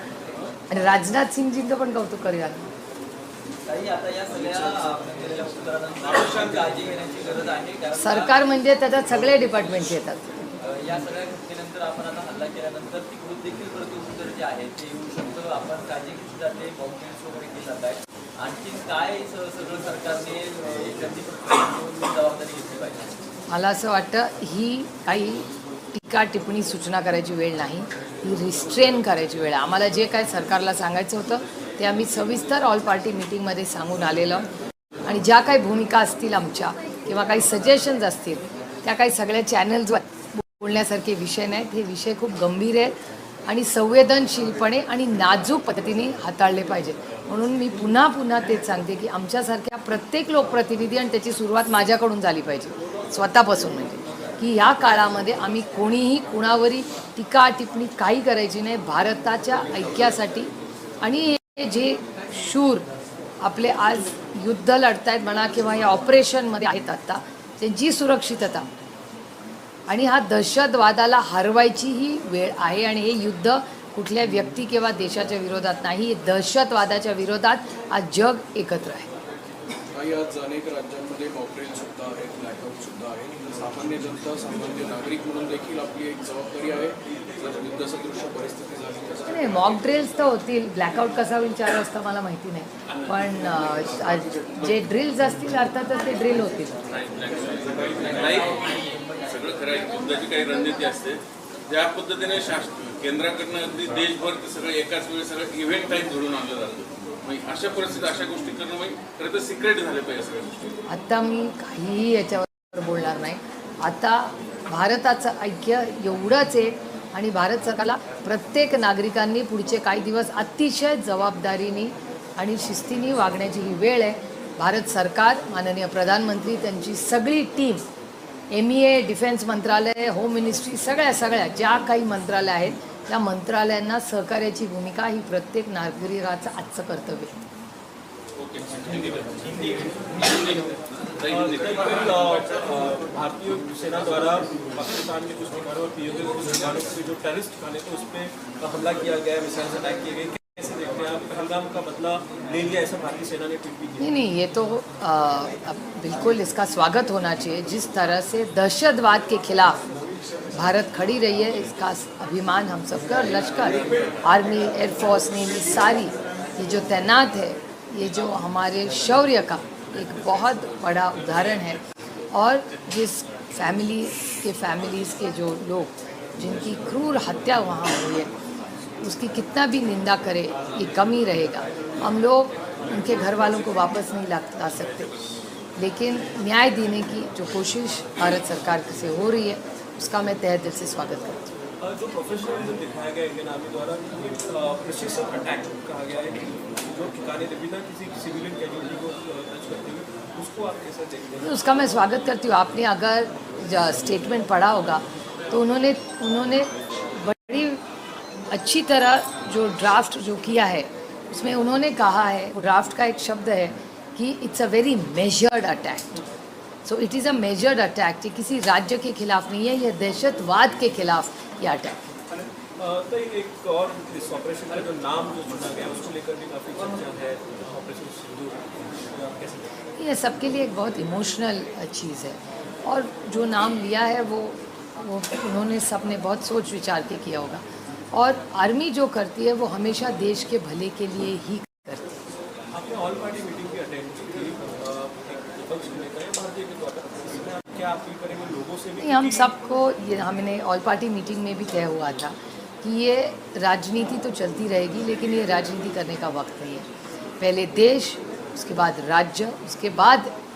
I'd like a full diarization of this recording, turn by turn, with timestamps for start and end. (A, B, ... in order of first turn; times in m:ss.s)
0:00.7-0:02.7 A
0:03.6-0:09.4 B
0:08.0-0:10.3 A
0:10.6-0:23.1 B
0:23.5-0:34.5 A
0:35.0-0:43.0 A
0:43.5-1:00.5 A
1:01.0-1:02.8 A
1:03.4-1:08.7 A
1:09.9-1:19.1 A
1:19.9-1:30.0 C
1:29.3-1:36.8 A
1:36.8-1:50.6 D
1:37.7-1:38.9 B
1:50.9-2:07.8 A
2:08.5-2:17.4 A
2:18.4-2:20.6 D
2:21.2-2:22.7 D
2:21.2-2:34.1 E
2:34.0-2:39.8 A
2:40.5-2:51.8 A
2:52.3-2:58.3 A
2:59.0-3:05.2 A
3:05.8-3:11.5 A
3:11.8-3:21.5 E
3:21.4-3:27.8 A
3:28.5-3:36.2 A
3:36.8-3:42.0 A
3:42.3-3:49.6 E
3:50.0-4:02.1 A
4:02.7-4:09.5 E
4:09.0-4:16.9 A
4:17.4-4:20.3 A